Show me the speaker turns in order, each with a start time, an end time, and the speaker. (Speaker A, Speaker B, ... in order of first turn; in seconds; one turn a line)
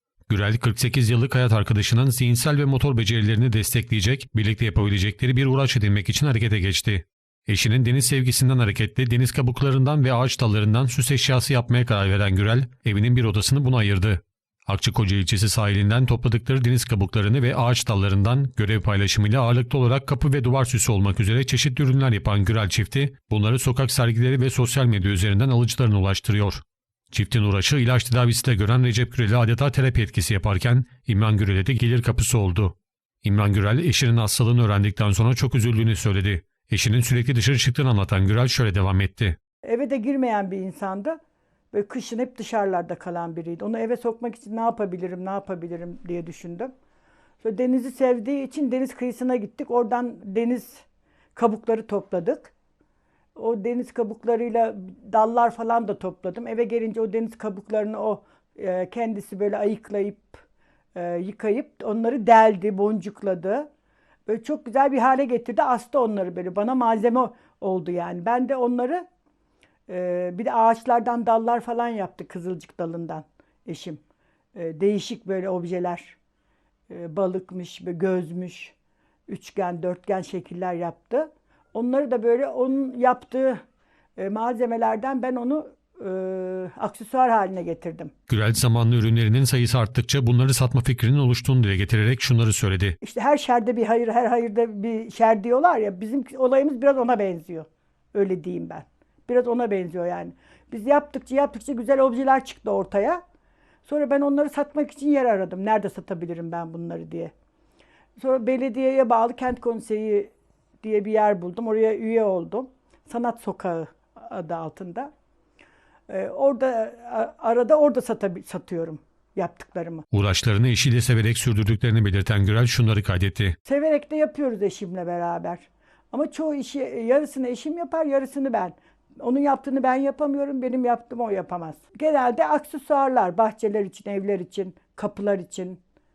Speaker A: 0.3-39.4
Speaker B: 39.6-41.2
Speaker B: 41.7-46.7
Speaker B: 47.4-52.5
Speaker B: 53.3-63.7
Speaker B: 64.3-69.0
Speaker B: 69.9-74.0
Speaker B: 74.5-76.2
Speaker B: 76.9-78.7
Speaker B: 79.3-83.6
Speaker B: 84.2-88.1
Speaker A: 88.3-93.0
Speaker B: 93.0-103.2
Speaker B: 103.8-107.3
Speaker B: 108.2-115.1
Speaker B: 116.1-120.0
Speaker A: 120.1-123.6
Speaker B: 123.6-135.8